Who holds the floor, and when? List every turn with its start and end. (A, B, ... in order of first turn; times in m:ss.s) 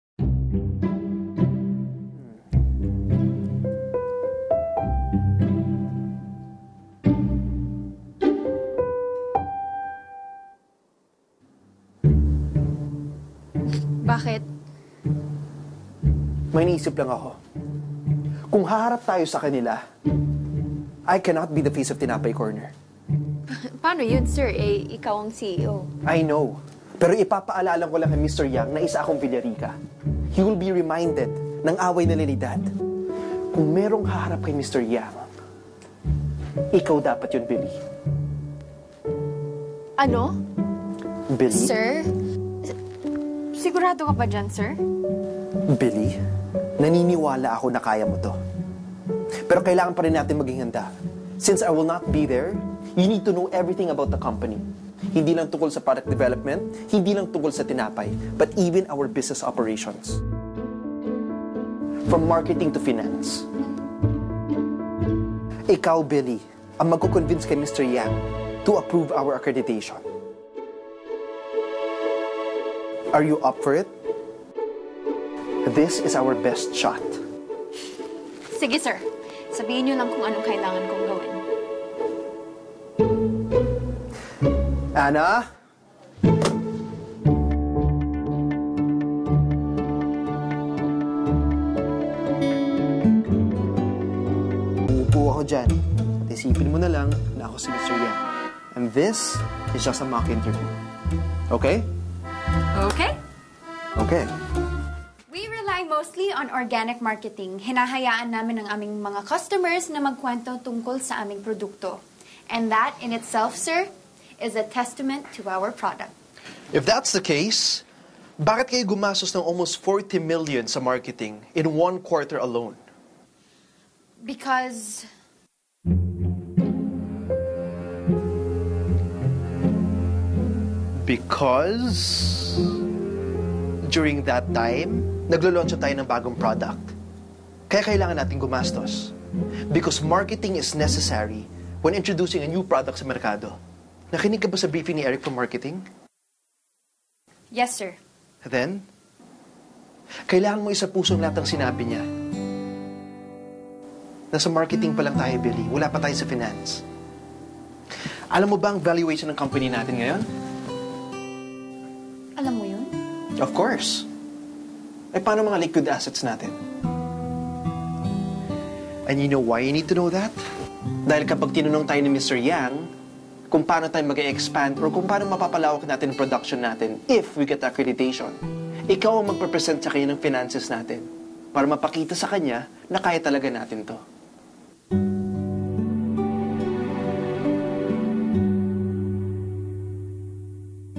0:14.0-0:14.4 A
0:16.5-0:17.4 B
0:18.5-0:19.8 B
0:21.1-0:22.7 B
0:23.5-0:25.9 A
0:26.0-0:29.8 B
0:30.3-0:32.7 B
0:33.5-0:35.3 B
0:36.7-0:37.8 B
0:40.0-0:40.4 A
0:41.3-0:41.7 B
0:41.5-0:42.1 A
0:43.6-0:44.8 A
0:45.7-0:46.2 B
0:46.8-0:48.4 B
0:49.5-1:00.2 B
1:02.1-1:03.5 B
1:05.7-1:10.0 B
1:13.1-1:13.9 B
1:15.6-1:17.2 B
1:18.5-1:21.4 A
1:25.0-1:25.4 B
1:34.9-1:38.2 B
1:38.7-1:40.7 B
1:41.5-1:41.9 B
1:42.8-1:43.2 A
1:44.0-1:44.3 B
1:45.3-1:56.1 A
1:56.7-1:57.8 B
1:58.4-2:02.8 B
2:04.2-2:05.1 A
2:11.0-2:12.7 B
2:13.9-2:16.9 B
2:17.7-2:19.1 B
2:19.7-2:23.6 B
2:24.1-2:25.8 B
2:27.5-2:28.0 A
2:28.4-2:28.8 B
2:30.3-2:32.0 B
2:34.3-2:36.8 B
2:38.3-2:40.3 B
2:42.4-2:42.9 A
2:43.4-2:44.1 B
2:45.1-2:46.6 B
2:49.1-2:50.4 B
2:51.1-2:52.9 B
2:53.5-3:04.0 B